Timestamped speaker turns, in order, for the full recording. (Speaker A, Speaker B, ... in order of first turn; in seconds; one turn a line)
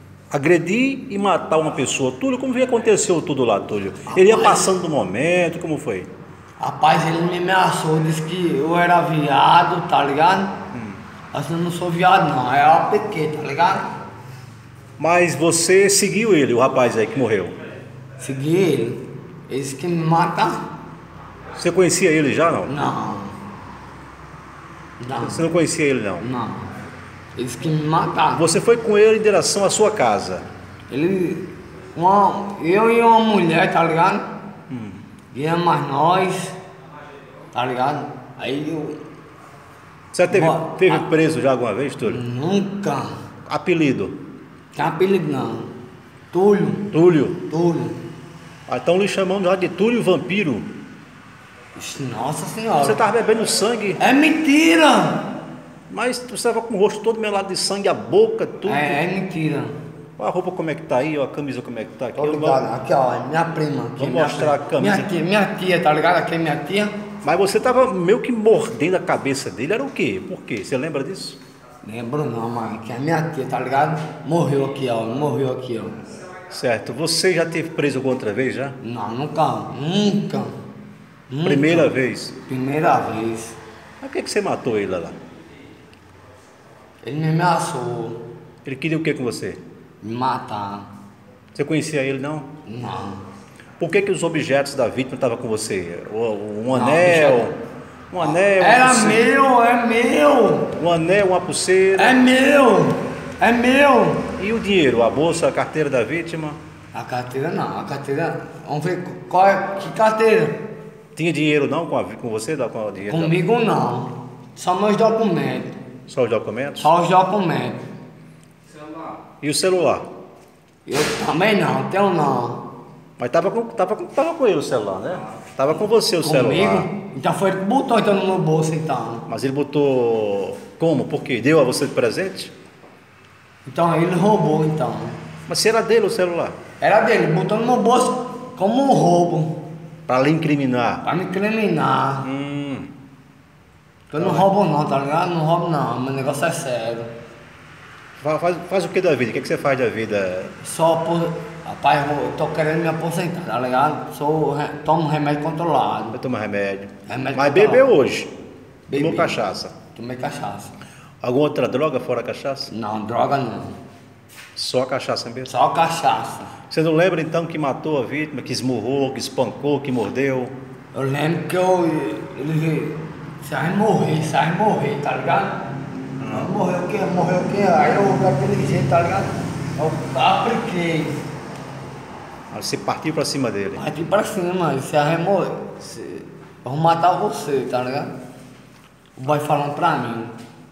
Speaker A: 0.3-6.1
Speaker B: 4.1-4.7
Speaker B: 6.6-10.6
Speaker A: 10.7-11.0
Speaker B: 11.3-13.9
Speaker A: 15.0-17.6
Speaker B: 18.2-20.6
Speaker A: 21.6-22.7
Speaker B: 22.7-23.4
Speaker B: 25.0-25.4
Speaker A: 25.2-26.2
Speaker B: 26.2-26.8
Speaker B: 27.4-28.4
Speaker A: 28.3-30.4
Speaker B: 30.9-34.3
Speaker A: 34.7-35.0
Speaker B: 35.3-36.6
Speaker B: 37.5-39.0
Speaker A: 40.1-42.2
Speaker B: 40.3-41.1
Speaker B: 42.0-43.1
Speaker A: 43.5-44.1
Speaker B: 44.7-45.7
Speaker B: 46.3-46.9
Speaker A: 46.9-47.4
Speaker B: 47.5-48.0
Speaker A: 48.7-50.7
Speaker B: 51.8-53.0
Speaker A: 52.8-54.0
Speaker B: 54.0-55.3
Speaker A: 55.9-59.0
Speaker B: 58.6-59.7
Speaker A: 60.2-62.6
Speaker B: 62.2-66.9
Speaker A: 64.0-65.1
Speaker A: 67.2-71.4
Speaker B: 71.8-76.0
Speaker A: 76.5-78.8
Speaker B: 78.8-80.5
Speaker B: 81.3-81.9
Speaker A: 81.4-82.3
Speaker B: 82.5-83.6
Speaker A: 84.0-85.2
Speaker B: 87.0-88.2
Speaker A: 88.6-89.6
Speaker B: 90.0-90.9
Speaker A: 91.5-92.5
Speaker B: 92.7-93.2
Speaker A: 93.8-97.5
Speaker B: 96.7-97.5
Speaker A: 98.1-99.3
Speaker B: 98.2-100.8
Speaker A: 100.8-102.2
Speaker B: 102.0-104.3
Speaker A: 104.4-106.6
Speaker B: 106.9-110.6
Speaker A: 111.2-113.3
Speaker B: 113.1-115.8
Speaker A: 116.1-116.9
Speaker B: 116.8-117.8
Speaker A: 119.4-120.0
Speaker B: 120.8-122.6
Speaker A: 123.2-126.9
Speaker B: 126.2-129.2
Speaker A: 129.3-132.5
Speaker B: 133.7-135.2
Speaker A: 135.5-136.5
Speaker B: 136.8-139.6
Speaker A: 140.1-141.0
Speaker B: 141.0-142.3
Speaker A: 142.2-142.9
Speaker B: 144.1-147.1
Speaker A: 144.2-144.5
Speaker A: 148.2-150.5
Speaker B: 150.6-156.2
Speaker A: 156.1-158.3
Speaker B: 157.1-157.9
Speaker B: 158.9-160.8
Speaker A: 158.9-159.7
Speaker A: 161.2-162.7
Speaker B: 162.7-163.8
Speaker A: 164.6-165.5
Speaker B: 165.4-166.5
Speaker A: 166.7-170.5
Speaker B: 170.9-175.6
Speaker A: 176.2-176.5
Speaker B: 176.3-181.2
Speaker A: 182.5-183.8
Speaker B: 183.7-188.1
Speaker B: 189.2-190.3